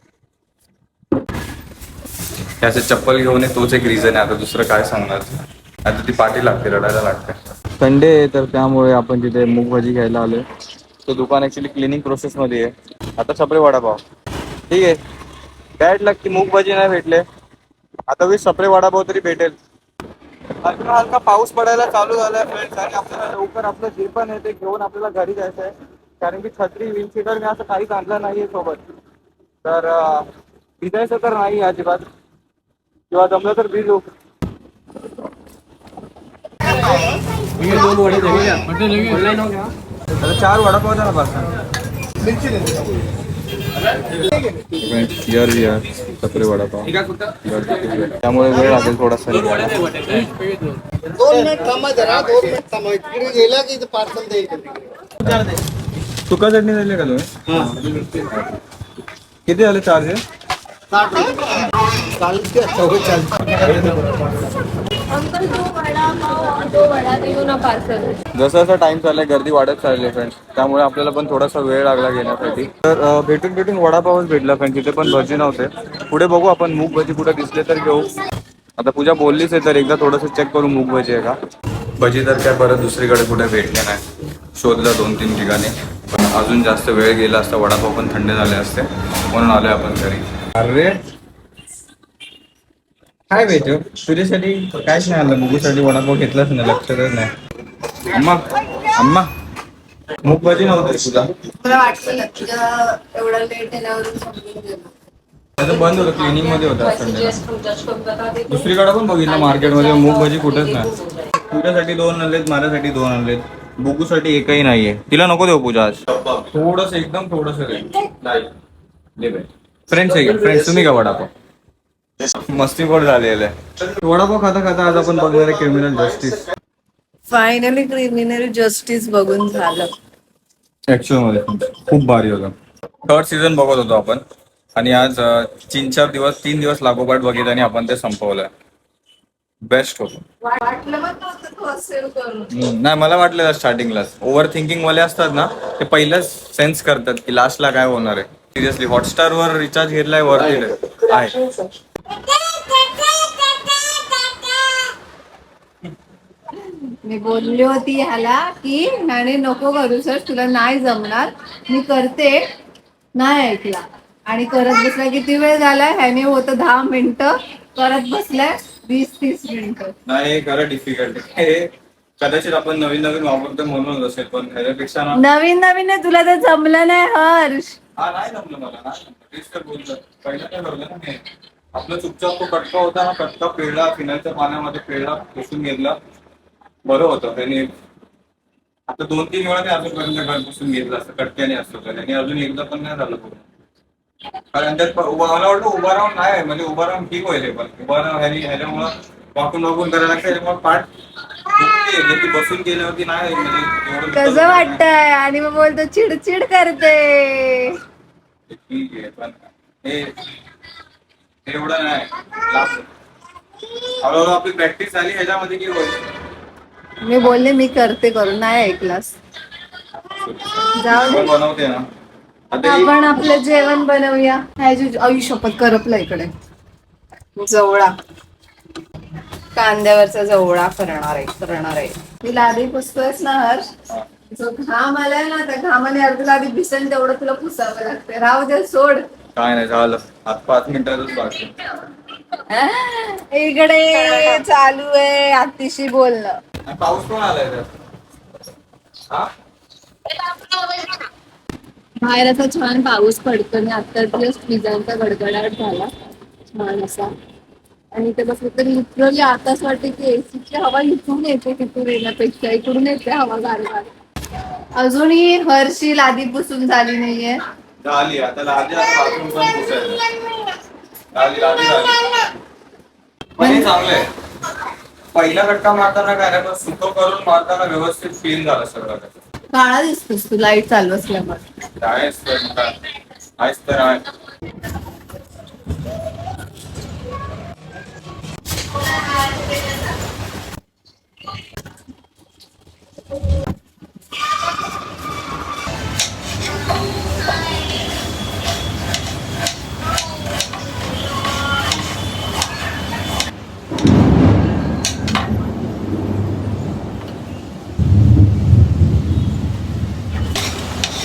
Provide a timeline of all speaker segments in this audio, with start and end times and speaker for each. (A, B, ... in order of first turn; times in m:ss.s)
0:02.6-0:10.4 A
0:11.0-0:14.0 A
0:14.7-0:15.0 A
0:15.8-0:17.2 A
0:18.1-0:19.6 A
0:20.6-0:28.8 A
0:29.6-0:30.3 A
0:30.8-0:32.0 A
0:33.1-0:34.0 A
0:36.8-0:38.0 B
0:40.2-0:41.5 A
0:42.5-0:42.8 C
0:44.1-0:50.3 A
0:51.2-0:54.8 C
0:51.2-0:51.8 B
0:55.2-0:55.5 A
0:56.3-0:58.6 A
0:59.4-1:00.2 A
1:01.0-1:01.2 C
1:02.2-1:03.3 C
1:03.4-1:04.1 A
1:05.1-1:08.2 B
1:08.3-1:18.1 A
1:18.8-1:21.4 A
1:22.0-1:24.0 A
1:24.5-1:31.0 A
1:33.3-1:37.3 A
1:38.0-1:39.3 A
1:40.2-1:41.4 A
1:41.5-1:44.9 B
1:45.6-1:47.4 A
1:45.6-1:48.7 B
1:48.5-1:58.5 A
1:49.2-1:51.2 B
1:59.2-2:01.3 A
2:02.3-2:06.4 A
2:07.3-2:09.9 B
2:10.9-2:12.5 A
2:13.1-2:14.2 A
2:14.7-2:18.5 A
2:19.6-2:20.2 A
2:20.4-2:22.5 B
2:22.5-2:31.4 A
2:32.3-2:34.4 B
2:36.6-2:42.4 B
2:43.2-2:49.9 B
2:50.0-2:55.2 A
2:55.1-2:57.8 B
2:58.0-3:01.2 A
3:01.7-3:06.0 A
3:06.8-3:07.7 A
3:08.9-3:13.4 A
3:14.5-3:20.9 A
3:21.5-3:24.8 A
3:24.1-3:27.8 B
3:28.5-3:30.1 A
3:31.4-3:32.9 A
3:34.0-3:36.0 A
3:37.0-3:39.2 B
3:40.2-3:41.9 A
3:40.7-3:41.3 B
3:42.5-3:42.9 A
3:42.6-3:46.3 B
3:47.4-3:47.9 B
3:49.5-3:53.6 B
3:54.3-3:59.1 B
3:59.3-4:01.5 A
4:02.5-4:06.4 B
4:06.7-4:07.7 A
4:10.2-4:11.1 B
4:12.0-4:15.9 B
4:16.5-4:17.1 B
4:17.9-4:23.9 B
4:24.8-4:27.4 B
4:27.8-4:30.0 A
4:31.1-4:32.2 A
4:33.4-4:34.1 A
4:33.4-4:33.7 B
4:35.1-4:39.1 A
4:39.5-4:41.4 B
4:41.8-4:42.7 A
4:43.4-4:44.1 A